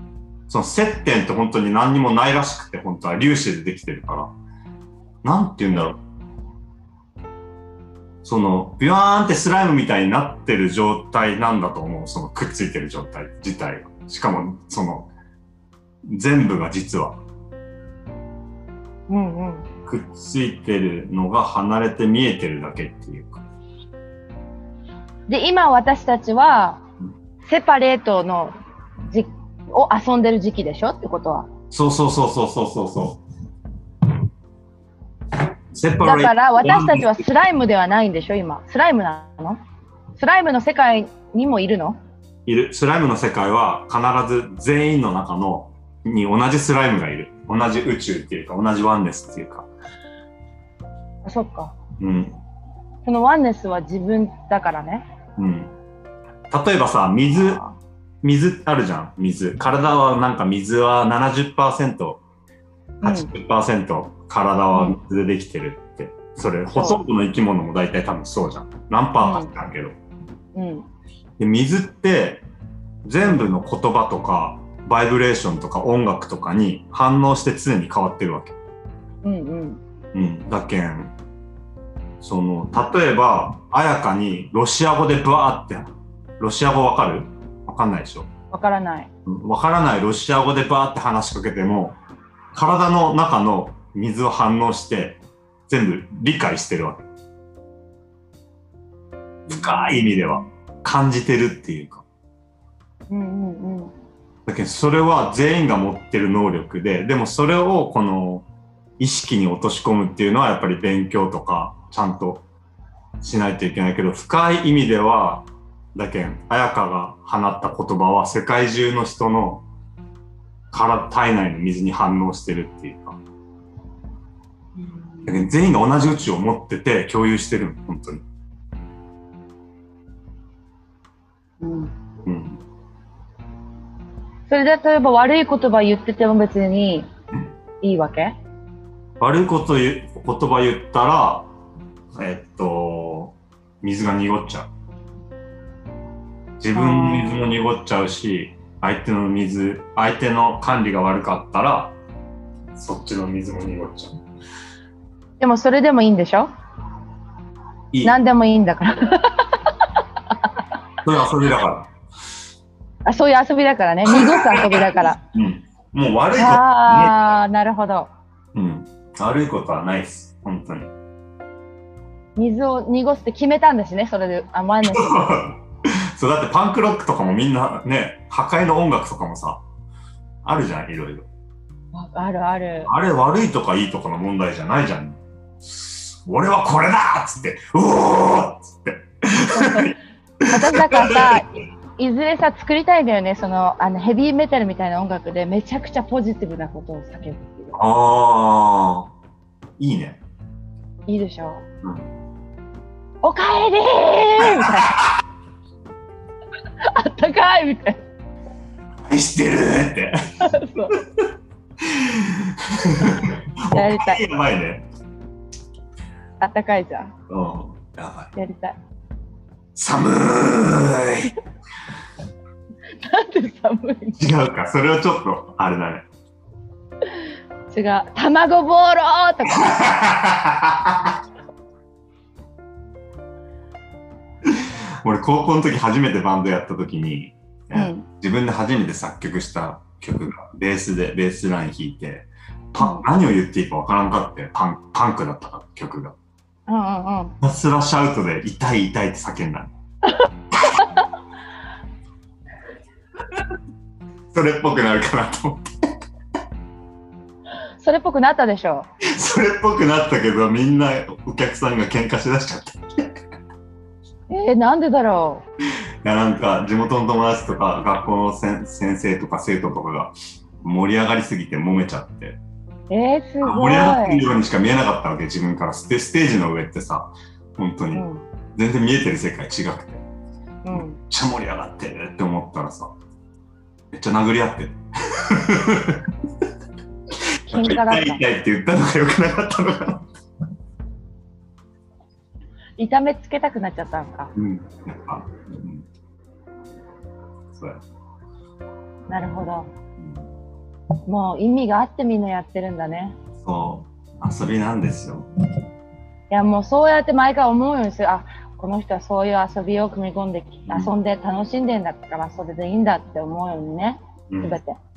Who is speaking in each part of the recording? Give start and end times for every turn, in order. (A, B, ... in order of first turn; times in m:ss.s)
0:00.5-0:04.3 A
0:05.2-0:06.0 A
0:08.2-0:15.1 A
0:16.1-0:17.2 A
0:19.1-0:19.6 B
0:19.9-0:23.4 A
0:25.3-0:26.8 B
0:27.5-0:28.5 B
0:29.1-0:31.5 B
0:31.7-0:33.2 A
0:35.7-0:37.2 A
0:36.0-0:39.6 B
0:40.2-0:42.0 B
0:42.5-0:49.7 A
0:51.2-0:51.8 B
0:52.0-0:52.4 A
0:53.0-0:55.1 B
0:55.4-0:55.7 A
0:56.5-0:57.6 A
0:57.3-0:57.8 B
0:58.2-1:02.2 A
1:03.0-1:10.0 A
1:03.0-1:03.3 B
1:04.7-1:05.0 B
1:06.7-1:07.0 B
1:09.2-1:09.5 B
1:10.6-1:10.9 B
1:11.4-1:12.5 A
1:13.0-1:18.6 A
1:19.2-1:19.8 B
1:20.1-1:21.1 A
1:22.2-1:28.3 A
1:28.5-1:29.1 B
1:29.3-1:32.0 A
1:32.5-1:37.1 A
1:39.5-1:42.0 A
1:39.5-1:40.4 B
1:43.1-1:43.9 B
1:44.5-1:48.5 A
1:49.0-1:52.5 A
1:53.2-1:59.6 A
2:00.7-2:03.2 A
2:04.8-2:05.4 B
2:05.3-2:08.2 A
2:11.6-2:11.9 B
2:12.3-2:12.6 A
2:14.5-2:17.1 B
2:17.8-2:18.3 B
2:19.2-2:21.5 A
2:22.2-2:24.7 A
2:26.6-2:32.0 A
2:26.7-2:27.4 B
2:32.8-2:34.2 A
2:35.4-2:36.5 B
2:38.0-2:39.5 B
2:41.0-2:41.9 A
2:43.1-2:45.2 B
2:44.1-2:47.2 A
2:46.3-2:48.1 B
2:48.5-2:50.9 A
2:52.4-2:55.3 B
2:54.9-2:55.6 A
2:56.2-2:59.6 A
3:00.4-3:01.3 A
3:01.9-3:02.9 B
3:02.9-3:09.9 A
3:09.5-3:10.0 B
3:10.5-3:17.8 B
3:10.6-3:11.4 A
3:17.8-3:19.1 A
3:19.8-3:20.2 A
3:21.1-3:21.6 B
3:21.8-3:22.1 A
3:23.2-3:24.9 B
3:27.0-3:28.0 B
3:29.1-3:30.2 A
3:30.4-3:31.0 B
3:31.0-3:31.3 A
3:31.8-3:34.9 A
3:33.7-3:34.2 B
3:36.4-3:37.1 B
3:37.3-3:38.3 A
3:38.4-3:38.8 B
3:39.8-3:41.3 A
3:43.0-3:44.3 B
3:44.2-3:46.1 A
3:47.7-3:49.8 B
3:49.7-3:51.2 A
3:54.4-4:06.2 A
3:57.7-3:58.1 B
4:02.8-4:03.0 B
4:06.7-4:07.4 B
4:07.4-4:09.7 A
4:10.1-4:11.0 B
4:14.3-4:15.7 A
4:17.8-4:18.9 B
4:19.1-4:23.2 A
4:24.3-4:25.5 B
4:26.0-4:32.4 A
4:32.9-4:34.3 B
4:33.4-4:40.0 A
4:37.9-4:38.2 B
4:40.6-4:41.0 B
4:40.7-4:42.9 A
4:43.9-4:46.1 A
4:47.5-4:48.2 B
4:47.5-4:50.0 A
4:52.8-4:54.3 B
4:54.4-4:55.8 A
4:57.5-4:57.8 A
4:59.1-4:59.7 B
5:00.0-5:00.3 A
5:01.1-5:03.2 B
5:03.4-5:05.3 A
5:06.3-5:14.8 B
5:14.3-5:14.6 A